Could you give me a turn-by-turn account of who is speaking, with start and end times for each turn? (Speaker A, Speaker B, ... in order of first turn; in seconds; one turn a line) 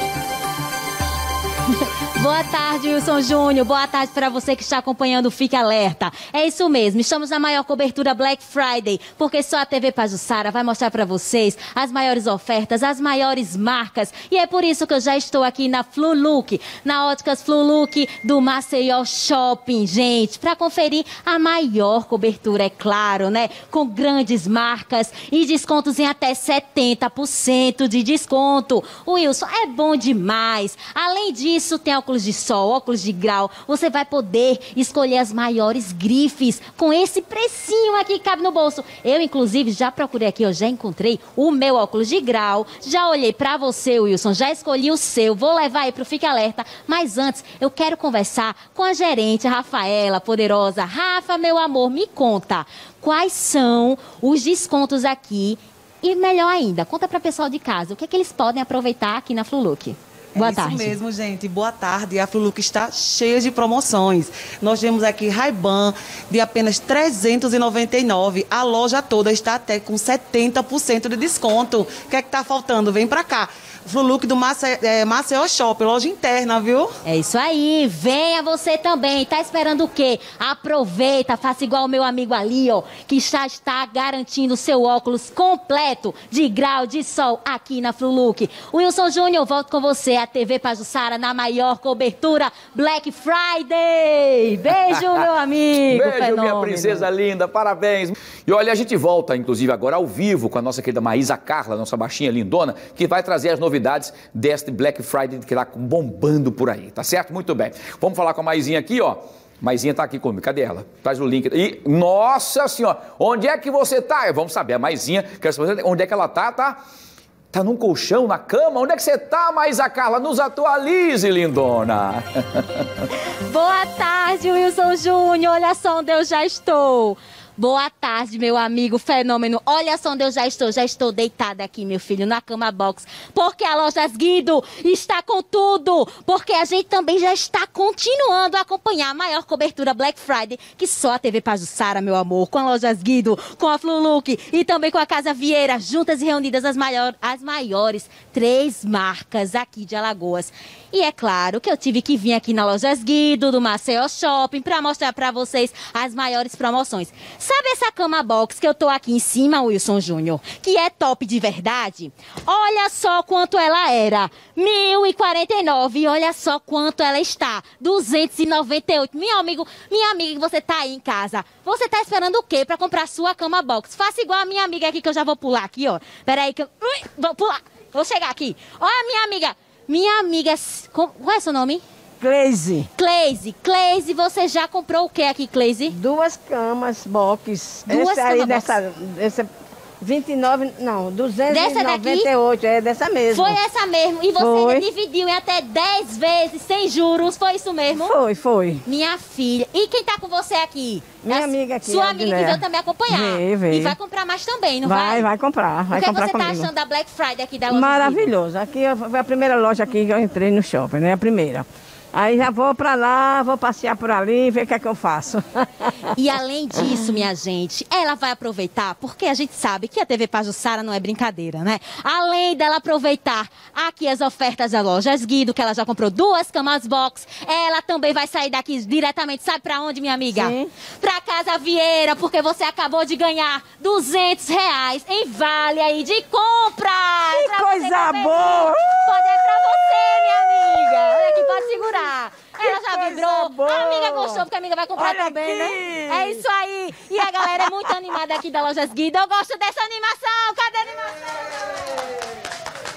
Speaker A: 2.2-61.0
Speaker B: 60.3-77.0
Speaker A: 77.0-97.1
Speaker C: 95.9-116.8
Speaker C: 117.5-122.8
Speaker A: 123.5-181.8
Speaker D: 182.2-182.9
Speaker A: 182.9-185.9
Speaker D: 185.9-189.5
Speaker A: 187.9-188.8
Speaker D: 190.0-193.6
Speaker A: 191.5-192.3
Speaker A: 193.3-198.2
Speaker D: 194.3-194.8
Speaker D: 197.9-198.8
Speaker A: 198.8-205.3
Speaker D: 201.2-204.0
Speaker D: 204.8-206.7
Speaker A: 205.9-208.3
Speaker D: 207.7-215.9
Speaker A: 216.2-251.2
Speaker D: 230.3-230.7
Speaker D: 237.3-239.0
Speaker D: 242.6-244.4
Speaker D: 244.9-246.4